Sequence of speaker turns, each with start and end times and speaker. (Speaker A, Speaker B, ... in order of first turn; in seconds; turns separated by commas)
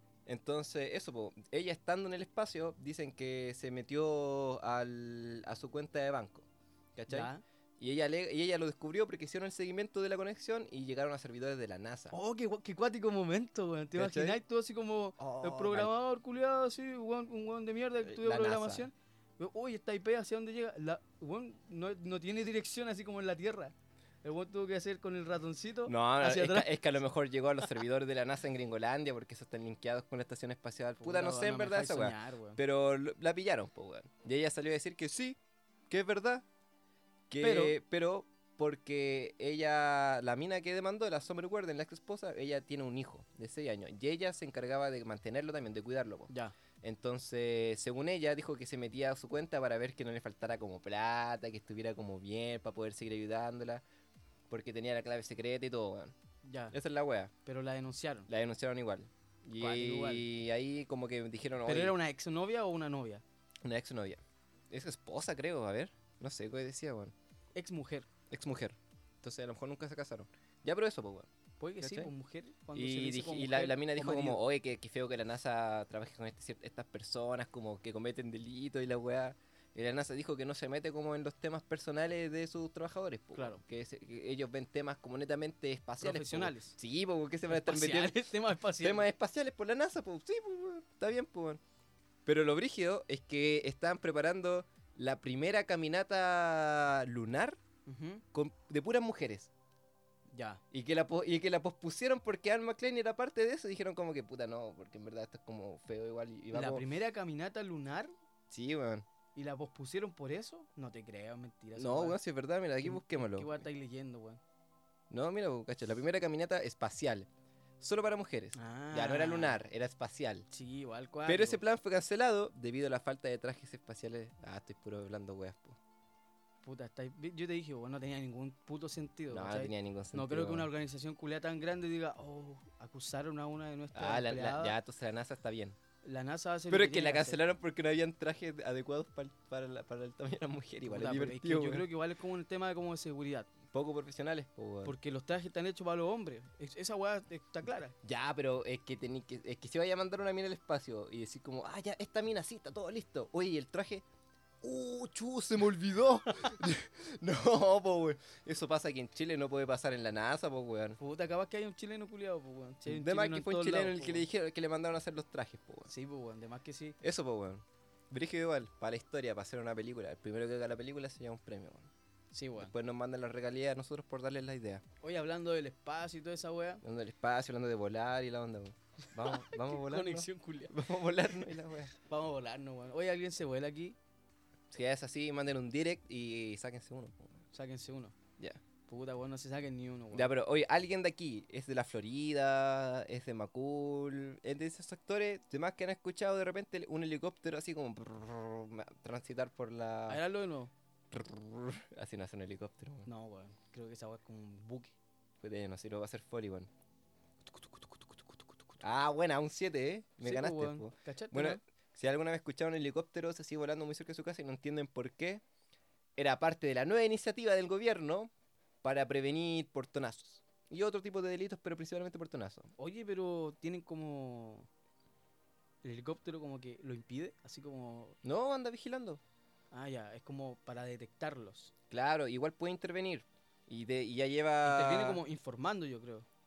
Speaker A: 0.2-12.1, Speaker B: 7.1-7.4, Speaker B: 12.1-26.7, Speaker A: 13.9-14.4, Speaker A: 15.2-15.9, Speaker A: 18.0-18.9, Speaker A: 25.9-35.4, Speaker B: 31.0-32.6, Speaker A: 35.9-36.5, Speaker A: 37.3-53.8, Speaker B: 37.4-37.8, Speaker A: 54.5-56.1, Speaker B: 56.4-56.7, Speaker A: 56.7-57.3, Speaker B: 57.4-58.3, Speaker A: 58.3-61.9, Speaker B: 59.6-60.2, Speaker B: 61.6-63.2, Speaker A: 63.6-67.1, Speaker B: 67.5-68.1, Speaker A: 68.3-71.3, Speaker B: 71.6-74.4, Speaker A: 71.8-72.1, Speaker A: 72.7-88.2, Speaker B: 83.3-83.6, Speaker B: 86.0-86.8, Speaker B: 87.5-89.1, Speaker A: 88.8-91.6, Speaker A: 92.2-97.6, Speaker B: 97.8-98.2, Speaker A: 98.3-99.5, Speaker B: 100.3-100.6, Speaker A: 100.7-106.8, Speaker B: 106.5-108.1, Speaker A: 108.5-109.1, Speaker B: 109.3-112.2, Speaker A: 111.8-113.6, Speaker B: 112.8-114.4, Speaker A: 115.1-117.3, Speaker A: 117.8-120.5, Speaker B: 118.5-119.6, Speaker B: 120.5-121.6, Speaker A: 121.2-125.8, Speaker B: 126.6-134.8, Speaker A: 129.3-130.7, Speaker A: 133.9-135.8, Speaker B: 136.0-137.4, Speaker A: 136.7-141.9, Speaker B: 140.8-143.5, Speaker A: 143.7-144.9, Speaker B: 144.8-147.9, Speaker A: 148.0-154.0, Speaker A: 154.6-161.0, Speaker B: 161.0-164.3, Speaker A: 162.8-165.9, Speaker B: 165.9-167.0, Speaker A: 167.0-171.9, Speaker B: 172.3-172.7, Speaker A: 172.6-174.8, Speaker B: 175.0-176.8, Speaker A: 176.8-181.9, Speaker B: 179.2-180.7, Speaker B: 182.0-184.0, Speaker A: 184.7-187.4, Speaker B: 187.5-188.1, Speaker B: 188.9-190.3, Speaker A: 190.1-200.2, Speaker B: 200.1-200.7, Speaker A: 201.1-203.1, Speaker B: 203.1-204.9, Speaker A: 205.4-206.7, Speaker B: 207.4-208.8, Speaker A: 208.8-215.4, Speaker B: 210.2-211.6, Speaker A: 216.2-218.3, Speaker A: 218.8-222.7, Speaker B: 222.8-224.7, Speaker B: 225.8-228.2, Speaker A: 228.2-229.2, Speaker B: 229.7-231.7, Speaker A: 231.9-235.2, Speaker B: 234.6-236.3